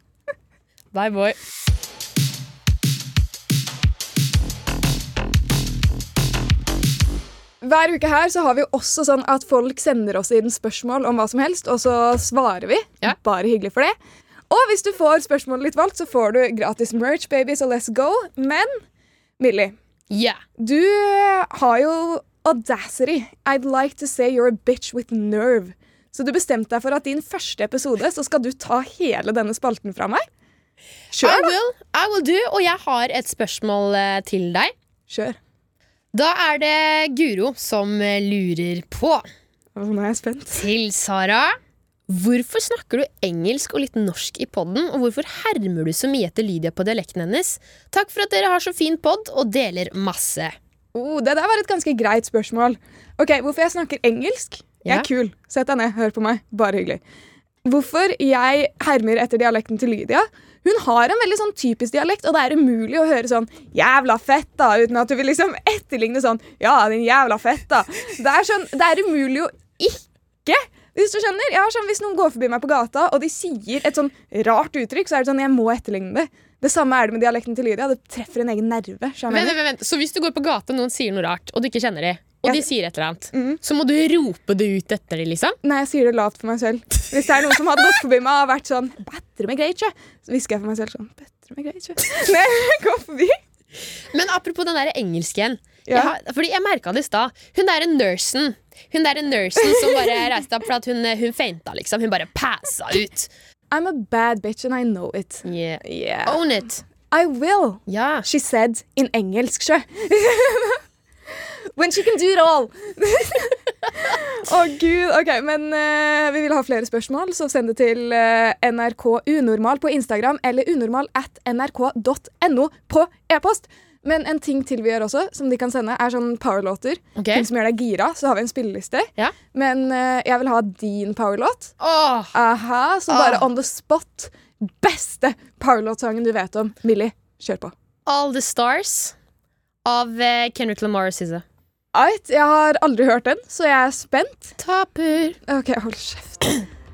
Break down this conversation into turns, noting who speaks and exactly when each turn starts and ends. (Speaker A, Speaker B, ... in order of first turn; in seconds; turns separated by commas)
Speaker A: 0.9-1.4, Speaker B: 7.6-13.9, Speaker B: 14.5-18.8, Speaker B: 19.4-19.8, Speaker A: 20.1-20.4, Speaker B: 20.6-30.2, Speaker B: 31.1-31.5, Speaker A: 31.2-34.7, Speaker B: 35.1-35.4, Speaker A: 36.1-39.2, Speaker B: 39.7-40.6, Speaker A: 40.5-50.5, Speaker B: 50.9-57.0, Speaker B: 57.6-79.6, Speaker A: 79.3-85.6, Speaker B: 83.3-83.6, Speaker B: 85.6-93.4, Speaker A: 94.1-103.3, Speaker B: 95.8-96.1, Speaker B: 99.6-100.2, Speaker B: 103.7-106.4, Speaker A: 105.4-106.8, Speaker B: 107.1-110.8, Speaker A: 107.9-108.2, Speaker B: 111.4-131.7, Speaker A: 127.2-127.5, Speaker A: 131.8-132.3, Speaker B: 132.3-137.7, Speaker A: 133.1-133.4, Speaker A: 138.1-139.2, Speaker A: 139.8-141.4, Speaker B: 141.9-144.6, Speaker A: 144.6-145.4, Speaker B: 145.4-146.6